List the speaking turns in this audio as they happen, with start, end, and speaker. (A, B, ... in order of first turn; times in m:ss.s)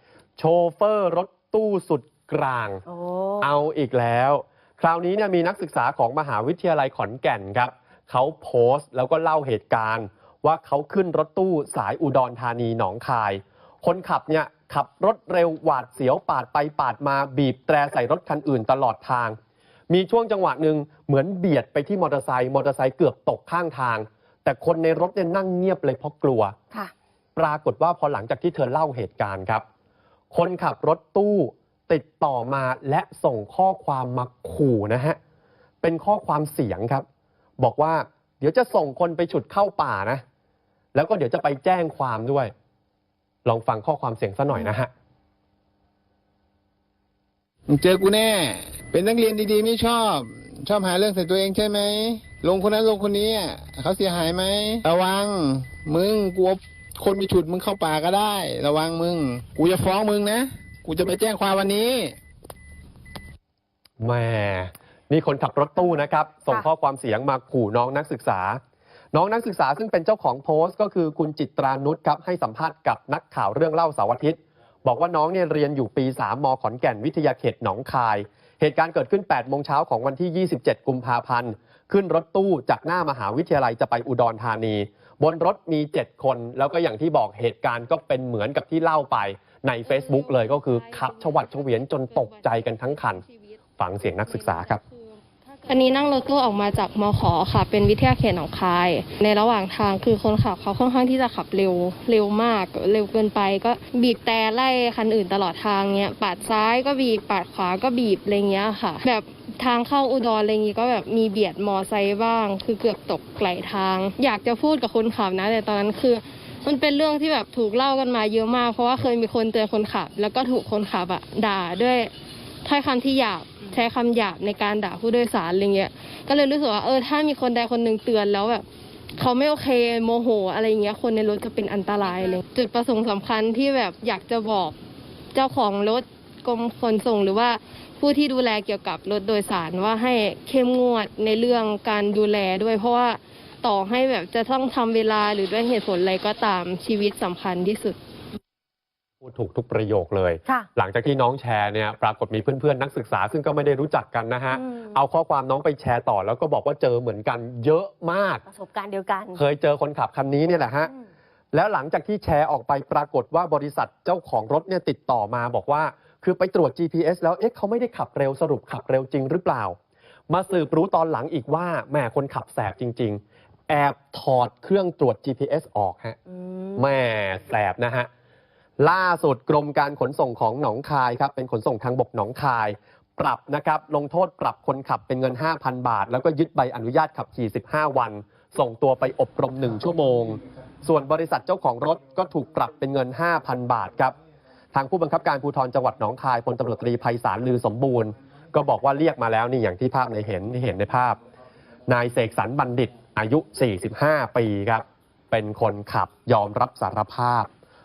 0:00.4-0:02.8 A
0:02.9-0:03.5 B
0:03.4-0:19.4 A
0:19.9-0:26.6 A
0:27.4-0:29.6 A
0:30.3-0:35.2 A
0:35.8-0:37.0 A
0:37.6-0:40.2 A
0:40.9-0:42.5 A
0:43.4-0:44.9 A
0:47.7-1:02.2 C
1:04.0-1:08.6 A
1:09.1-1:33.2 A
1:29.9-1:33.6 D
1:33.8-1:34.8 A
1:34.2-2:02.1 D
2:02.6-2:14.8 D
2:12.1-2:12.4 B
2:15.3-2:28.0 D
2:29.2-2:38.4 A
2:34.5-2:34.9 B
2:38.4-2:39.4 B
2:39.3-2:40.9 A
2:41.5-2:49.8 A
2:50.3-2:56.2 A
2:56.5-2:56.8 B
2:56.8-2:58.1 A
2:58.8-3:14.1 A
3:14.7-3:21.2 A
3:21.9-3:27.5 A